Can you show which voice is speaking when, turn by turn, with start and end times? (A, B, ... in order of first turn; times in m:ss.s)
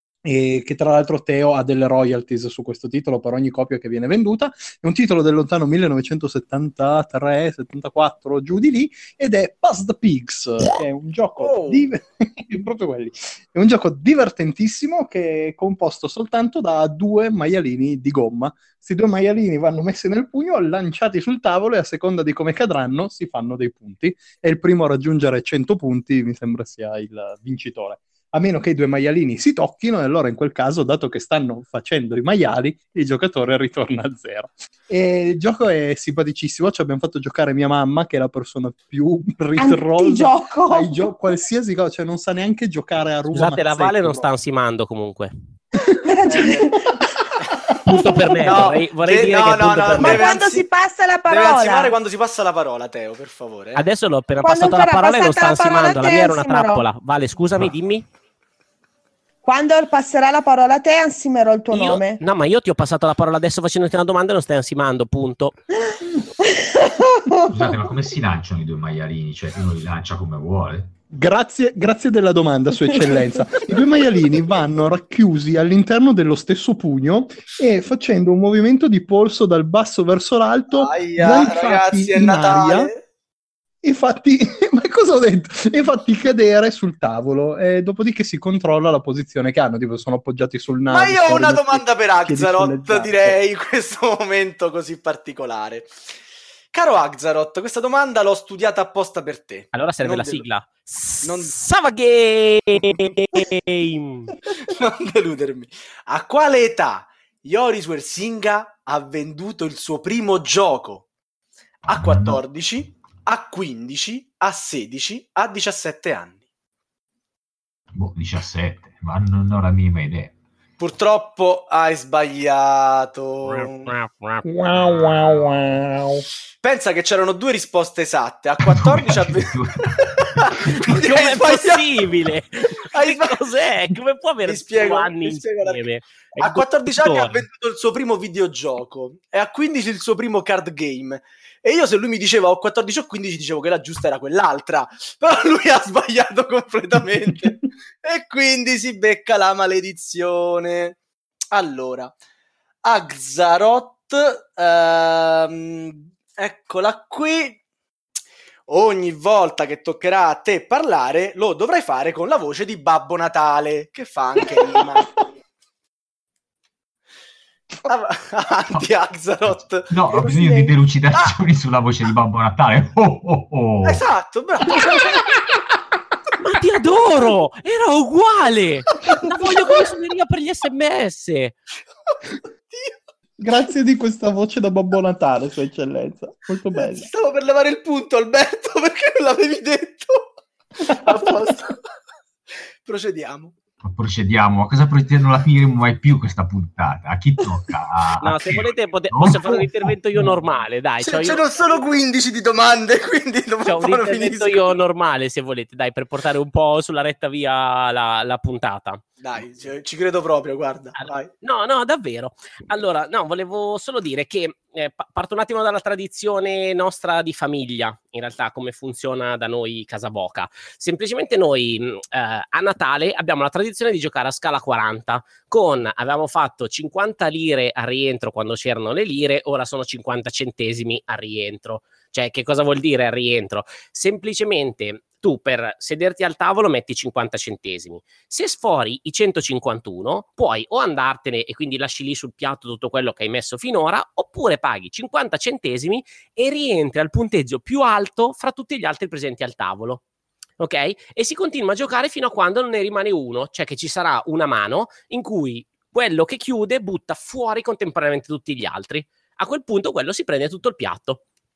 0:00.2-0:44.3 A
0:11.4-0:11.9 B
0:39.6-0:41.1 C
0:43.3-0:45.3 D
0:46.0-0:46.9 C
0:46.3-0:46.7 B
0:46.6-0:47.0 A
0:47.8-0:50.3 D
0:47.9-0:48.4 C
0:48.4-0:50.6 B
0:50.0-0:52.0 C
0:51.3-0:53.8 B
0:53.8-0:58.1 D
0:54.4-0:56.8 C
0:59.4-1:02.2 C
1:01.7-1:05.6 D
1:05.9-1:08.0 C
1:07.5-1:10.9 E
1:11.1-1:22.9 A
1:20.7-1:23.0 B
1:23.8-1:33.4 A
1:30.9-1:35.9 B
1:36.7-1:40.5 B
1:39.7-1:44.3 D
1:41.2-1:41.5 B
1:44.6-1:51.0 B
1:51.9-1:52.4 E
1:51.9-1:56.4 B
1:57.9-2:00.3 E
2:00.8-2:03.9 B
2:03.5-2:04.4 D
2:04.4-2:06.2 A
2:06.6-2:12.0 B
2:08.6-2:10.4 E
2:10.9-2:17.4 D
2:12.9-2:13.4 B
2:14.4-2:15.8 B
2:16.4-2:31.0 B
2:31.5-2:32.1 B
2:32.8-2:37.6 B
2:38.7-2:45.2 B
2:47.9-2:49.9 B
2:49.9-2:54.0 E
2:50.1-2:50.8 C
2:53.8-2:55.2 B
2:56.4-3:01.6 D
3:03.4-3:07.1 A
3:06.8-3:10.3 B
3:10.8-3:11.3 A
3:10.9-3:11.8 B
3:12.8-3:13.6 B
3:13.8-3:20.3 E
3:18.2-3:21.5 D
3:21.0-3:24.7 B
3:23.7-3:29.0 D
3:29.2-3:31.3 B
3:31.0-4:10.0 D
4:10.6-4:21.2 D